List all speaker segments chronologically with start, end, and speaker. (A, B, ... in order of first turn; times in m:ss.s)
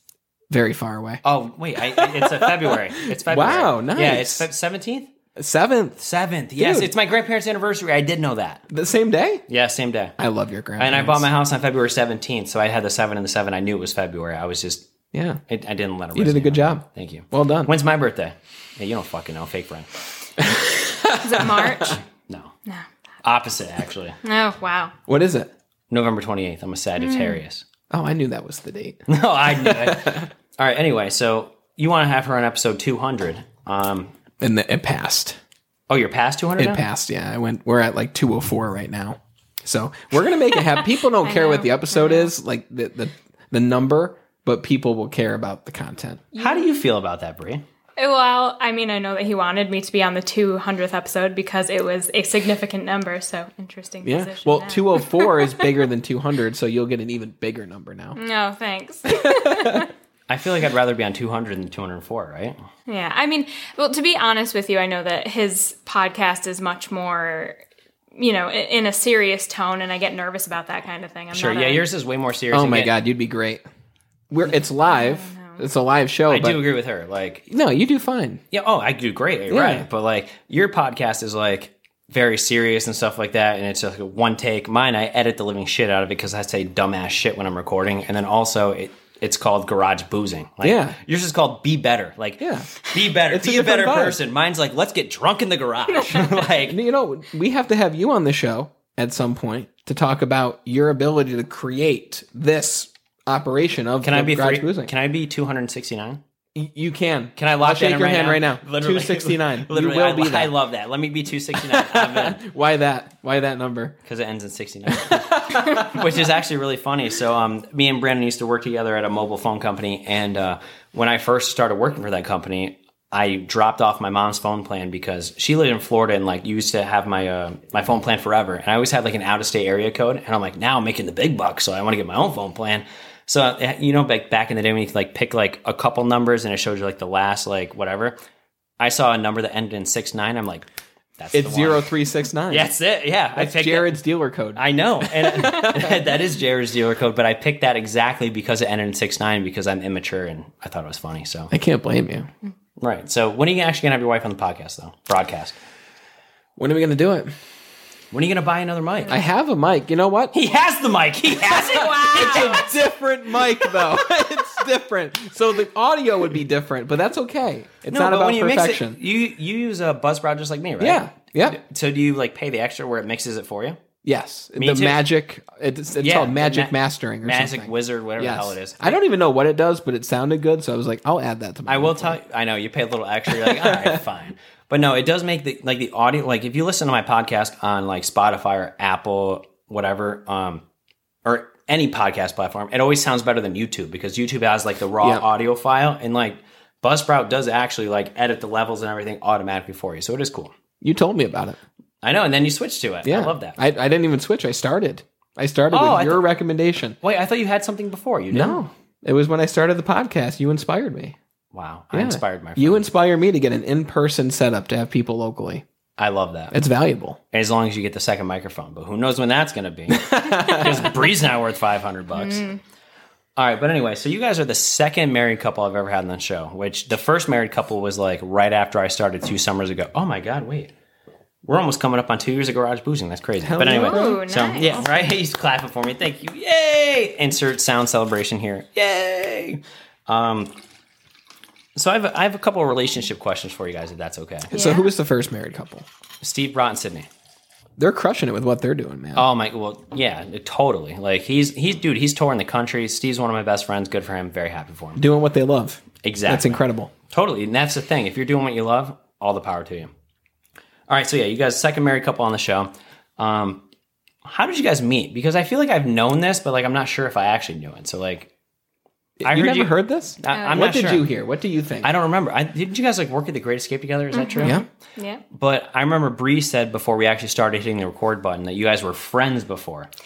0:00.5-0:01.2 A
0:01.2-0:05.1 B
0:01.9-0:04.5 A
0:05.4-0:06.0 A
0:06.0-0:08.7 B
0:06.6-0:06.9 A
0:08.7-0:09.5 A
0:09.5-0:10.2 B
0:10.2-0:11.2 A
0:10.8-0:14.8 B
0:15.1-0:15.4 A
0:15.5-0:19.9 B
0:16.1-0:17.7 A
0:20.4-0:22.0 A
0:21.1-0:22.0 C
0:22.2-0:22.5 B
0:23.2-0:24.2 B
0:24.2-0:25.0 C
0:25.1-0:25.5 A
0:25.9-0:27.6 B
0:27.0-0:27.4 C
0:27.9-0:30.3 A
0:29.1-0:34.1 B
0:34.4-0:35.4 A
0:35.9-0:36.8 B
0:36.6-0:46.2 A
0:41.2-0:42.3 C
0:46.3-0:46.7 C
0:46.4-0:47.6 B
0:48.0-0:55.7 C
0:54.0-0:58.2 A
0:58.2-0:59.9 C
0:59.2-0:59.8 A
1:00.3-1:02.6 B
1:02.9-1:07.6 C
1:08.2-1:11.8 C
1:11.3-1:12.9 B
1:12.5-1:13.6 A
1:14.3-1:16.6 A
1:14.8-1:15.6 C
1:16.3-1:17.5 B
1:17.5-1:18.4 A
1:18.5-1:36.8 B
1:19.5-1:19.8 A
1:30.6-1:31.0 A
1:32.4-1:34.2 A
1:36.0-1:36.5 C
1:36.7-1:44.9 A
1:44.0-1:46.2 B
1:46.5-1:50.6 A
1:47.4-1:52.4 B
1:51.5-1:53.9 A
1:54.0-2:18.2 B
1:54.9-1:55.9 A
2:18.8-2:20.7 B
2:21.2-2:21.9 B
2:21.3-2:22.7 A
2:22.5-2:24.0 B
2:23.3-2:26.0 A
2:24.5-2:31.5 B
2:31.5-2:32.3 A
2:32.8-2:35.6 B
2:36.6-2:37.3 A
2:38.1-2:39.2 B
2:39.1-2:40.3 A
2:40.3-2:42.7 B
2:41.5-2:42.7 C
2:42.0-2:49.0 A
2:47.9-2:53.8 B
2:50.8-2:51.6 A
2:54.0-3:02.2 A
2:54.6-2:55.0 B
2:56.0-2:59.0 B
3:01.7-3:10.6 B
3:03.3-3:04.0 A
3:11.2-3:20.5 B
3:20.8-3:21.6 A
3:22.0-3:23.6 B
3:23.0-3:27.0 A
3:25.7-3:26.2 B
3:27.0-3:28.6 B
3:28.3-3:31.2 A
3:31.5-3:32.8 B
3:31.9-3:35.6 A
3:36.0-3:36.5 B
3:36.5-3:37.2 A
3:37.3-3:42.5 B
3:39.9-3:40.9 A
3:42.2-3:42.6 C
3:43.4-3:50.7 B
3:51.4-4:00.6 B
3:53.4-3:54.8 A
3:53.6-3:54.8 C
4:01.8-4:04.5 B
4:04.5-4:05.8 A
4:04.5-4:04.9 C
4:06.2-4:07.1 B
4:07.8-4:09.3 A
4:09.2-4:15.0 B
4:15.0-4:16.9 A
4:16.0-4:19.9 B
4:20.9-4:23.6 B
4:24.2-4:28.3 B
4:29.2-4:31.9 A
4:29.2-4:31.0 B
4:30.3-4:30.7 C
4:31.8-4:34.6 B
4:34.1-4:35.2 C
4:35.3-4:39.9 B